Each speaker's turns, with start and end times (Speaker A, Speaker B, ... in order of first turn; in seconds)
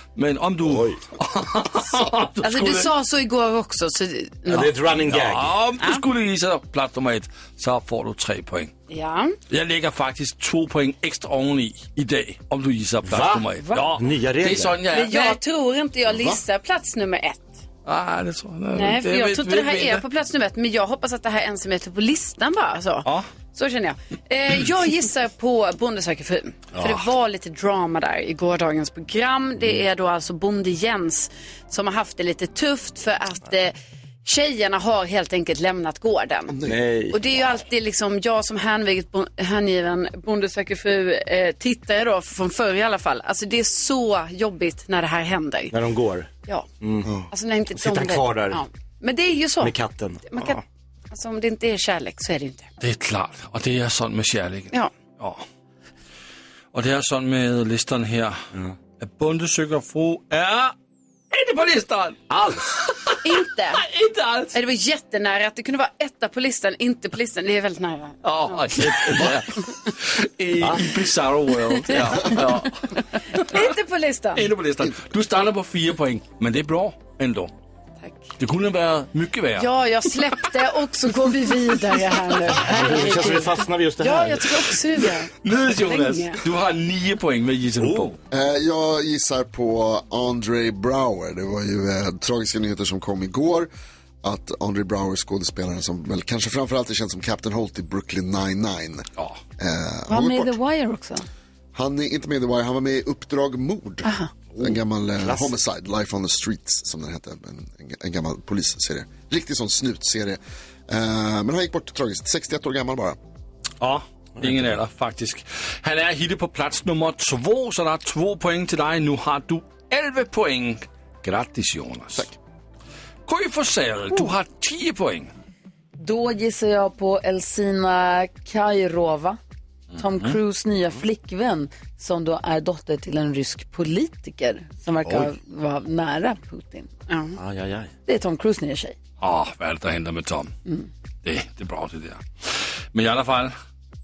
Speaker A: 0.1-2.9, 5.0-8.7, 9.5-15.4, 17.8-20.0, 52.8-55.4, 56.7-58.4, 59.0-60.7, 61.3-62.2, 63.8-64.6, 68.2-73.6, 74.3-77.5, 78.4-79.7, 85.4-88.2, 113.8-122.3, 123.2-125.3, 139.2-140.5, 141.2-143.5
Speaker B: 0.6-1.0, 4.5-5.5, 13.0-14.8, 26.8-27.1, 36.6-37.5, 45.7-46.3, 46.8-48.6, 49.6-50.5, 62.3-62.6, 70.6-70.8, 82.6-84.7, 87.8-88.1, 104.5-105.5, 114.4-114.7, 137.4-137.9
Speaker C: 2.4-4.7, 8.9-9.3, 14.9-17.6, 18.7-45.7, 47.3-49.7, 50.2-52.7, 63.2-63.8, 64.5-68.8, 71.9-72.4, 73.3-74.5, 78.0-78.3, 79.5-86.4, 137.1-137.4
Speaker D: 16.1-16.4, 36.5-36.8, 88.3-93.7, 94.2-99.0, 99.6-100.5, 101.7-104.1, 104.6-113.2
Speaker E: 100.1-101.3, 126.0-129.4, 130.0-136.9, 138.1-139.0